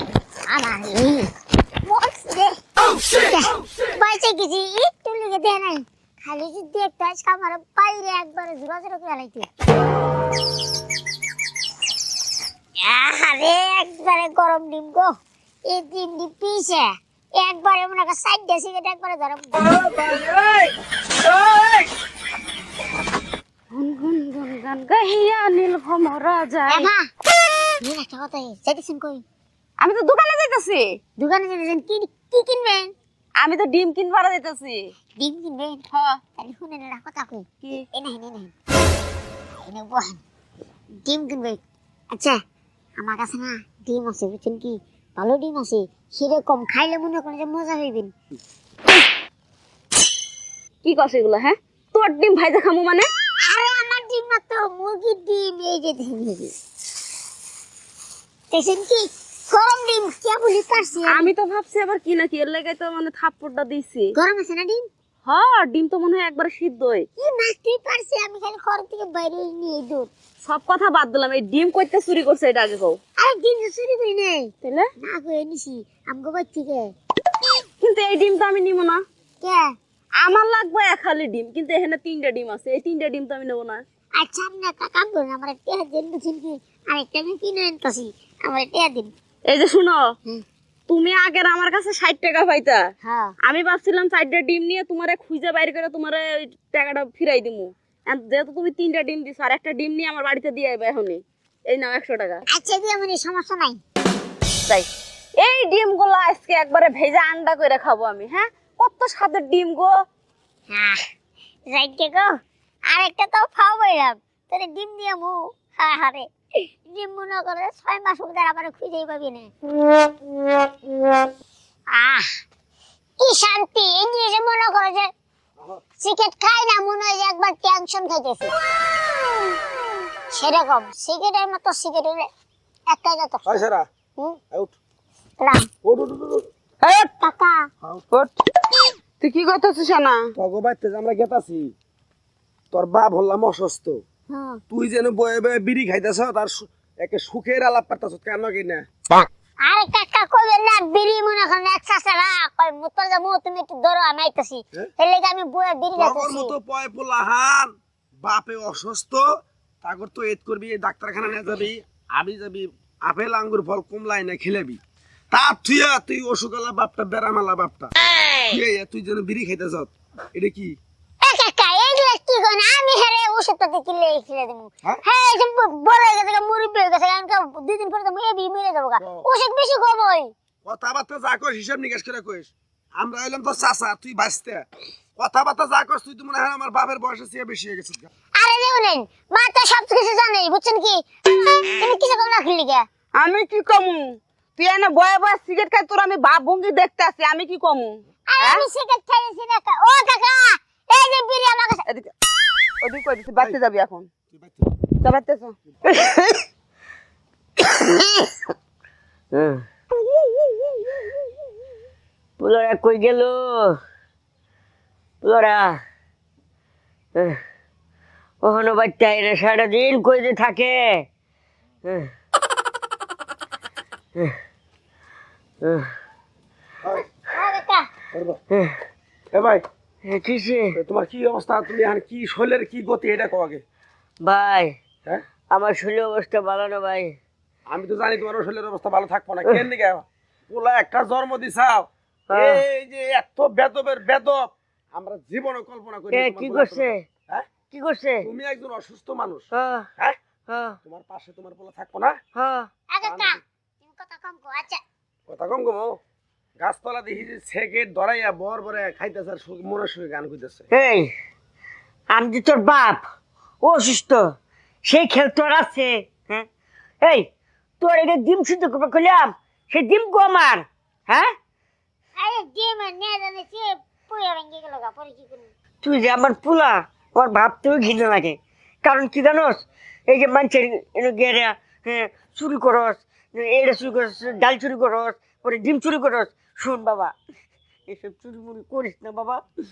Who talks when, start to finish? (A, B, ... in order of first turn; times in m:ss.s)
0:00.5-0:01.3 A
0:01.8-0:02.6 A
0:03.2-0:09.5 A
0:12.8-0:15.1 A
0:15.7-0:19.8 A
0:20.0-0:20.6 B
0:23.7-0:26.9 B
0:26.7-0:27.0 A
0:27.8-0:29.2 A
0:29.8-0:30.8 B
0:31.2-0:32.9 A
0:33.4-0:34.8 B
0:35.2-0:38.5 A
0:35.9-0:36.2 B
0:39.6-0:40.2 A
0:41.0-0:41.6 A
0:42.1-0:42.4 A
0:43.0-0:48.1 A
0:50.8-0:53.1 B
0:53.4-0:56.5 A
0:58.5-1:01.3 A
1:01.1-1:04.1 B
1:04.2-1:04.9 A
1:05.3-1:07.1 B
1:07.2-1:10.1 A
1:10.4-1:13.0 B
1:13.2-1:16.9 A
1:14.6-1:14.9 B
1:17.8-1:19.0 B
1:19.4-1:19.7 A
1:20.2-1:23.8 B
1:24.2-1:29.1 A
1:29.5-1:30.0 B
1:30.9-1:32.8 B
1:33.0-1:33.4 A
1:33.4-1:42.4 B
1:42.5-1:43.8 A
1:44.7-1:49.9 B
1:50.7-1:51.0 A
1:51.7-1:52.3 A
1:52.9-1:59.5 A
2:01.9-2:02.4 A
2:03.2-2:05.1 A
2:06.0-2:08.5 A
2:10.3-2:12.3 A
2:12.9-2:13.5 A
2:13.5-2:13.9 C
2:14.5-2:14.8 C
2:15.4-2:15.6 A
2:15.8-2:16.4 C
2:16.8-2:17.7 A
2:19.2-2:20.3 B
2:20.4-2:21.7 C
2:22.7-2:24.0 C
2:24.3-2:24.6 A
2:24.7-2:28.9 C
2:29.1-2:36.5 A
2:36.0-2:39.3 C
2:39.8-2:44.8 C
2:45.3-2:47.9 C
2:48.5-2:50.8 C
2:51.2-3:00.3 A
2:59.0-2:59.3 C
3:00.6-3:04.6 C
3:05.2-3:08.1 C
3:08.4-3:12.9 A
3:13.2-3:18.6 B
3:18.3-3:21.8 A
3:21.9-3:22.1 B
3:22.8-3:24.1 B
3:24.3-3:24.7 C
3:25.0-3:25.6 B
3:25.9-3:26.4 D
3:27.6-3:28.3 D
3:29.3-3:29.7 D
3:32.4-3:33.8 D
3:35.2-3:35.8 D
3:37.2-3:37.4 D
3:38.4-3:41.1 D
3:41.8-3:42.1 D
3:45.6-3:45.9 D
3:47.0-3:47.9 A
3:48.1-3:48.4 C
3:48.5-3:48.8 D
3:49.3-3:49.6 C
3:50.0-3:50.8 D
3:50.8-3:53.6 C
3:54.2-3:54.8 D
3:55.5-3:57.2 D
3:57.7-4:07.5 C
4:02.3-4:02.6 D
4:06.1-4:07.0 D
4:07.7-4:08.3 D
4:08.2-4:09.5 C
4:09.5-4:09.9 D
4:10.5-4:10.8 D
4:10.8-4:12.2 C
4:12.4-4:12.7 D
4:12.9-4:14.8 A
4:13.0-4:13.4 C
4:15.3-4:16.0 C
4:16.6-4:20.7 C
4:20.7-4:21.1 D
4:22.1-4:23.1 D
4:23.6-4:24.2 D
4:24.9-4:26.5 D
4:27.0-4:27.3 D
4:27.8-4:31.3 D
4:32.2-4:35.5 A
4:35.8-4:47.2 D
4:47.9-4:49.4 D